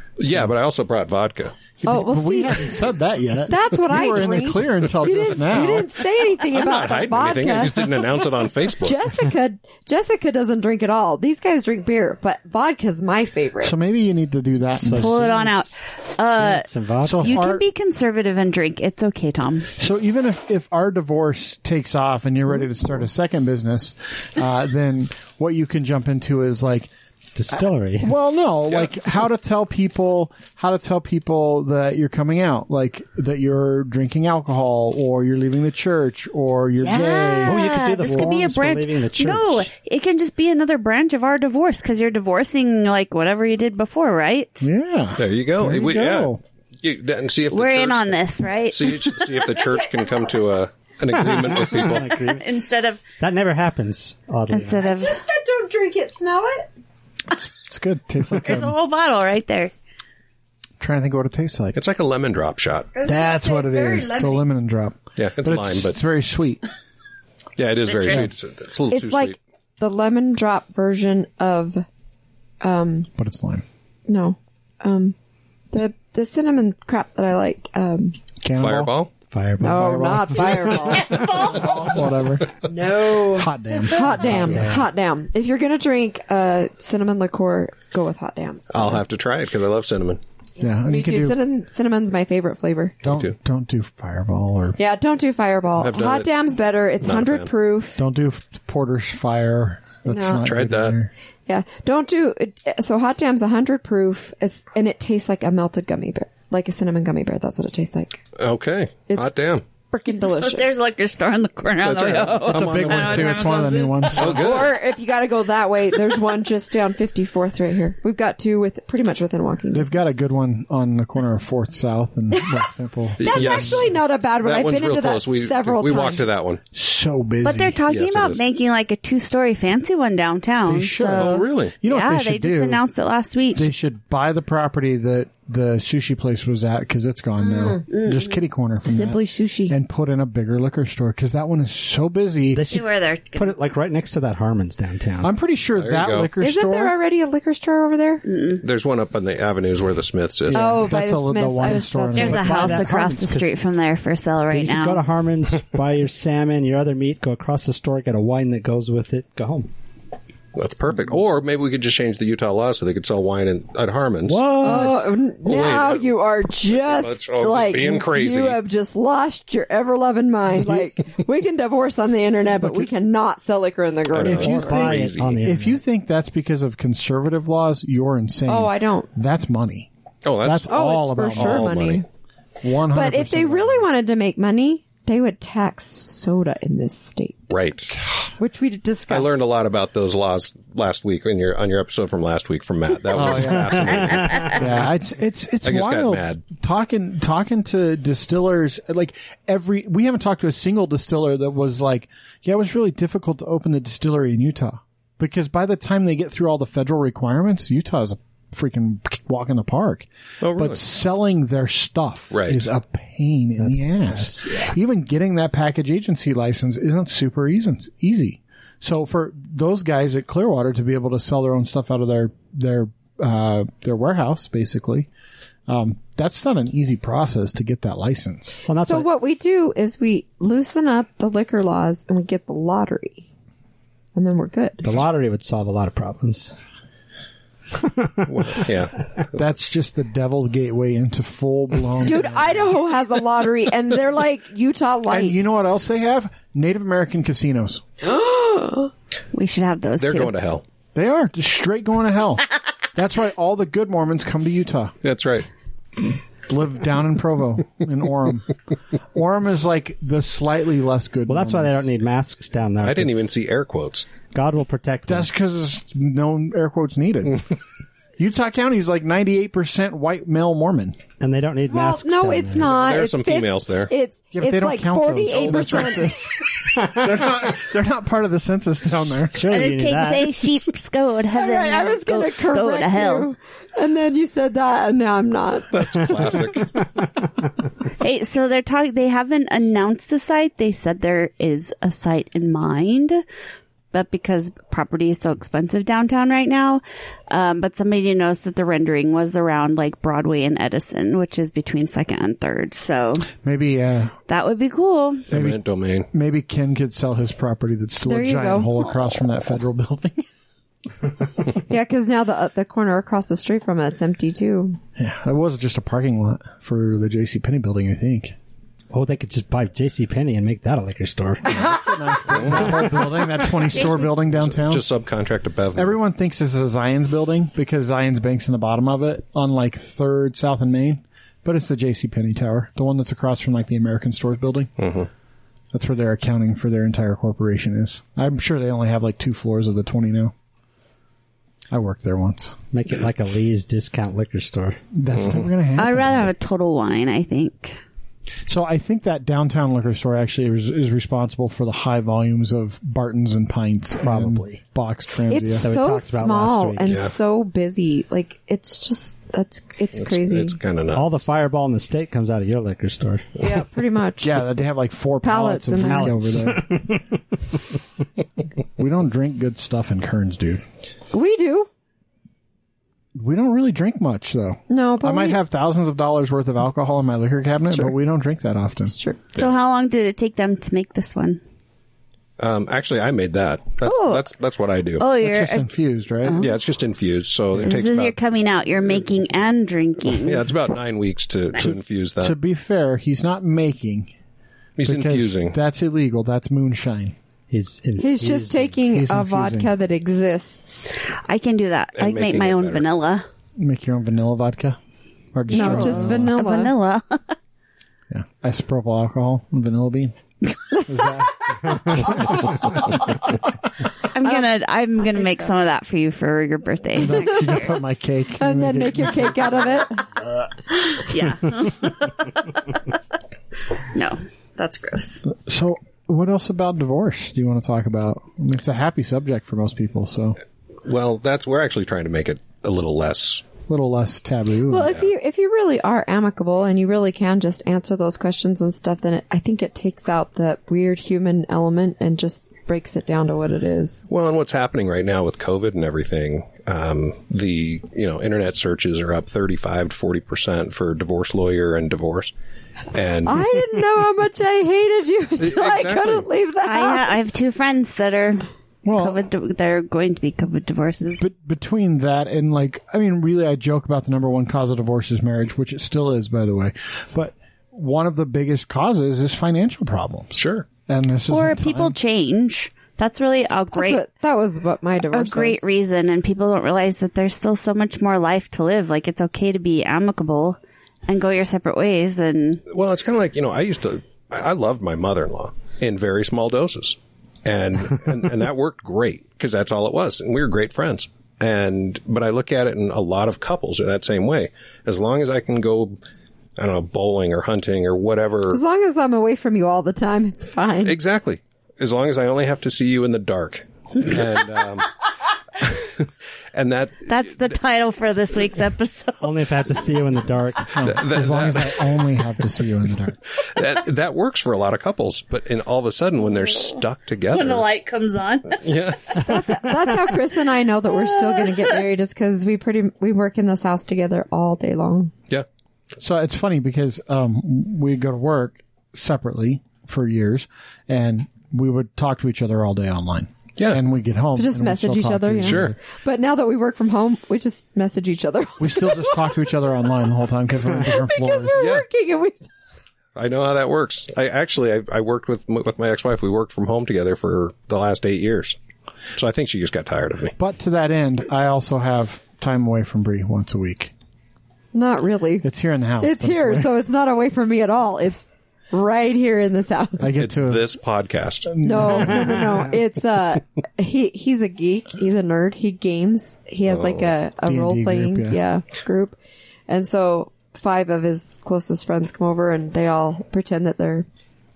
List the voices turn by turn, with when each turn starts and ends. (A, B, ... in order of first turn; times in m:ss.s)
0:00.2-0:01.6 A
0:01.8-0:05.9 B
0:01.8-0:02.8 C
0:03.5-0:08.2 C
0:06.5-0:09.0 A
0:08.8-0:13.7 C
0:13.6-0:15.5 B
0:14.8-0:15.5 D
0:14.8-0:19.7 E
0:16.3-0:17.5 D
0:17.0-0:17.6 B
0:19.7-0:26.9 B
0:27.4-0:28.1 D
0:28.0-0:38.4 B
0:36.8-0:44.7 E
0:37.4-0:39.7 D
0:44.6-0:46.4 B
0:45.2-0:52.2 A
0:47.5-0:49.5 E
0:51.8-0:52.5 D
0:52.2-0:53.0 E
0:53.2-0:54.8 D
0:54.5-0:55.1 E
0:54.8-0:56.7 C
0:57.3-0:58.8 B
0:58.3-0:59.7 E
1:00.8-1:01.8 B
1:01.7-1:02.9 A
1:02.9-1:04.5 C
1:03.0-1:06.6 B
1:05.2-1:06.0 A
1:07.6-1:09.4 A
1:07.8-1:08.3 E
1:08.9-1:11.8 C
1:12.6-1:13.1 C
1:13.2-1:13.6 B
1:14.1-1:15.2 C
1:15.7-1:18.2 C
1:18.4-1:18.9 B
1:18.6-1:19.1 A
1:19.3-1:20.1 D
1:19.6-1:24.8 B
1:19.6-1:21.7 C
1:21.1-1:21.6 E
1:22.6-1:29.0 C
1:24.0-1:24.9 D
1:28.7-1:30.2 A
1:30.6-1:31.4 B
1:30.6-1:33.0 C
1:33.0-1:33.3 A
1:33.0-1:34.8 B
1:34.8-1:38.0 C
1:35.8-1:36.3 A
1:37.0-1:37.5 A
1:38.0-1:41.1 B
1:40.1-1:40.4 C
1:40.4-1:41.0 A
1:41.5-1:48.2 C
1:48.4-1:49.6 A
1:49.9-1:50.8 C
1:50.1-1:54.6 E
1:51.8-1:53.6 A
1:52.5-1:54.4 B
1:54.1-1:54.7 A
1:54.2-2:00.0 C
1:59.7-2:03.8 B
2:02.3-2:02.6 C
2:03.2-2:06.6 A
2:03.2-2:06.3 C
2:06.7-2:07.8 B
2:07.4-2:13.7 E
2:07.9-2:08.4 A
2:10.7-2:12.8 B
2:11.1-2:11.8 A
2:13.5-2:22.6 B
2:17.4-2:17.8 C
2:17.9-2:18.4 E
2:18.9-2:19.8 C
2:22.5-2:25.3 D
2:22.7-2:23.5 E
2:25.2-2:26.9 B
2:25.8-2:26.3 A
2:26.4-2:28.2 C
2:28.2-2:28.6 E
2:28.6-2:30.8 A
2:30.5-2:33.1 B
2:30.5-2:32.6 C
2:32.1-2:35.0 E
2:32.2-2:33.5 D
2:34.5-2:39.7 D
2:40.5-2:44.9 A
2:44.2-2:45.1 D
2:44.6-2:54.9 C
2:45.4-2:46.1 A
2:46.7-2:48.6 A
2:52.6-2:52.9 B
2:54.1-2:55.4 A
2:54.2-2:59.9 B
2:54.2-2:55.8 D
2:58.5-2:59.1 C
3:00.2-3:02.0 A
3:00.4-3:01.7 B
3:00.7-3:02.0 C
3:02.6-3:03.9 B
3:02.9-3:07.5 C
3:07.5-3:08.1 A
3:08.4-3:09.4 C
3:09.1-3:14.7 A
3:13.1-3:45.1 B
3:13.3-3:14.5 D
3:14.1-3:14.5 E
3:15.6-3:16.4 A
3:30.4-3:30.8 A
3:32.3-3:32.6 A
3:33.6-3:34.8 D
3:45.7-3:48.6 B
3:48.6-3:49.1 D
3:48.8-3:53.2 C
3:54.1-3:54.8 C
3:54.8-3:56.5 D
3:57.8-3:58.6 D
3:58.3-3:59.1 A
3:59.3-4:02.8 B
4:02.0-4:05.4 C
4:05.1-4:07.8 B
4:08.0-4:08.9 C
4:09.3-4:10.3 E
4:10.0-4:10.6 A
4:10.9-4:15.0 B
4:15.0-4:15.5 A
4:16.5-4:18.5 B
4:19.1-4:21.9 B
4:21.3-4:23.3 D
4:22.8-4:24.1 A
4:24.3-4:25.3 D
4:25.1-4:27.5 B
4:28.2-4:31.0 B
4:31.2-4:32.8 D
4:31.7-4:36.1 C
4:32.8-4:33.9 A
4:34.3-4:39.6 B
4:35.3-4:36.0 A
4:39.3-4:40.4 D
4:39.5-4:43.3 E
4:41.3-4:46.0 C
4:45.7-4:46.8 A
4:48.0-4:53.2 E
4:53.9-5:03.3 E
5:03.4-5:04.2 B
5:04.3-5:05.2 E
5:05.3-5:06.1 A
5:05.3-5:05.6 B
5:06.1-5:10.2 B
5:08.0-5:08.8 C
5:11.7-5:14.8 C
5:15.0-5:18.4 B
5:18.9-5:21.7 D
5:21.5-5:24.8 B
5:22.3-5:22.9 A
5:24.0-5:26.0 A
5:25.8-5:34.7 B
5:34.8-5:35.1 A
5:35.7-5:40.3 B
5:41.7-5:42.6 B
5:42.7-5:44.8 D
5:44.9-5:46.3 B
5:45.1-5:45.4 A
5:45.8-5:47.8 E
5:48.5-5:55.7 B
5:54.0-5:54.6 D
5:55.3-6:00.6 C
5:55.6-5:57.0 D
5:56.8-5:57.1 A
6:00.0-6:01.0 A
6:00.9-6:03.3 D
6:03.4-6:04.3 C
6:04.2-6:06.8 B
6:05.2-6:06.3 C
6:05.8-6:07.1 D
6:08.8-6:10.6 B
6:11.1-6:11.7 C
6:13.1-6:18.9 B
6:14.7-6:15.4 C
6:17.6-6:17.9 C
6:18.9-6:19.2 C
6:19.3-6:21.4 E
6:22.4-6:25.1 A
6:23.8-6:24.3 E
6:25.0-6:25.7 E
6:25.2-6:26.4 B
6:26.2-6:26.6 E
6:26.4-6:28.2 A
6:27.6-6:30.5 E
6:30.1-6:32.4 A
6:32.2-6:34.1 B
6:34.8-6:35.6 A
6:34.8-6:37.1 B
6:37.5-6:38.8 D
6:38.0-6:40.9 C
6:38.9-6:39.7 B
6:41.2-6:43.2 E
6:42.0-6:42.9 A
6:43.6-6:44.8 B
6:45.3-6:46.3 B
6:45.5-6:47.4 E
6:45.5-6:46.7 C
6:48.1-6:50.2 B
6:50.8-6:53.1 B
6:54.1-6:57.8 E
6:54.2-6:54.5 C
6:57.0-6:59.5 B
6:58.4-7:00.1 C
7:00.9-7:02.6 E
7:03.9-7:05.2 E
7:05.2-7:10.4 B
7:10.8-7:13.5 A
7:13.7-7:14.9 B
7:14.7-7:24.0 C
7:24.1-7:32.3 A
7:32.9-7:33.6 A
7:33.2-7:37.2 C
7:35.4-7:36.3 A
7:36.6-7:41.2 E
7:38.8-7:39.2 B
7:41.2-7:52.0 B
7:50.3-7:50.7 A
7:51.3-7:54.0 E
7:53.7-7:55.6 C
7:55.1-8:02.6 E
8:02.7-8:16.0 A
8:16.6-8:18.6 A
8:18.5-8:21.0 C
8:20.8-8:24.9 A
8:25.6-8:27.5 A
8:27.1-8:29.4 E
8:29.2-8:30.8 D
8:30.7-8:33.2 B
8:30.8-8:32.0 A
8:33.4-8:37.6 A
8:37.3-8:38.6 E
8:38.6-8:39.5 A
8:39.2-8:45.1 C
8:41.2-8:41.7 E
8:46.0-8:55.8 B
8:54.3-8:59.4 C
8:55.4-8:55.7 A
8:58.6-9:01.6 B
9:00.8-9:02.5 C
9:01.6-9:01.8 A
9:03.1-9:08.6 A
9:09.2-9:10.3 A
9:10.4-9:13.9 B
9:14.7-9:15.5 C
9:15.4-9:16.7 B
9:16.0-9:20.0 C
9:20.0-9:20.7 B
9:20.0-9:22.1 A
9:21.5-9:22.6 B
9:21.6-9:29.2 C
9:26.7-9:27.1 A
9:27.4-9:28.4 B
9:29.7-9:34.0 C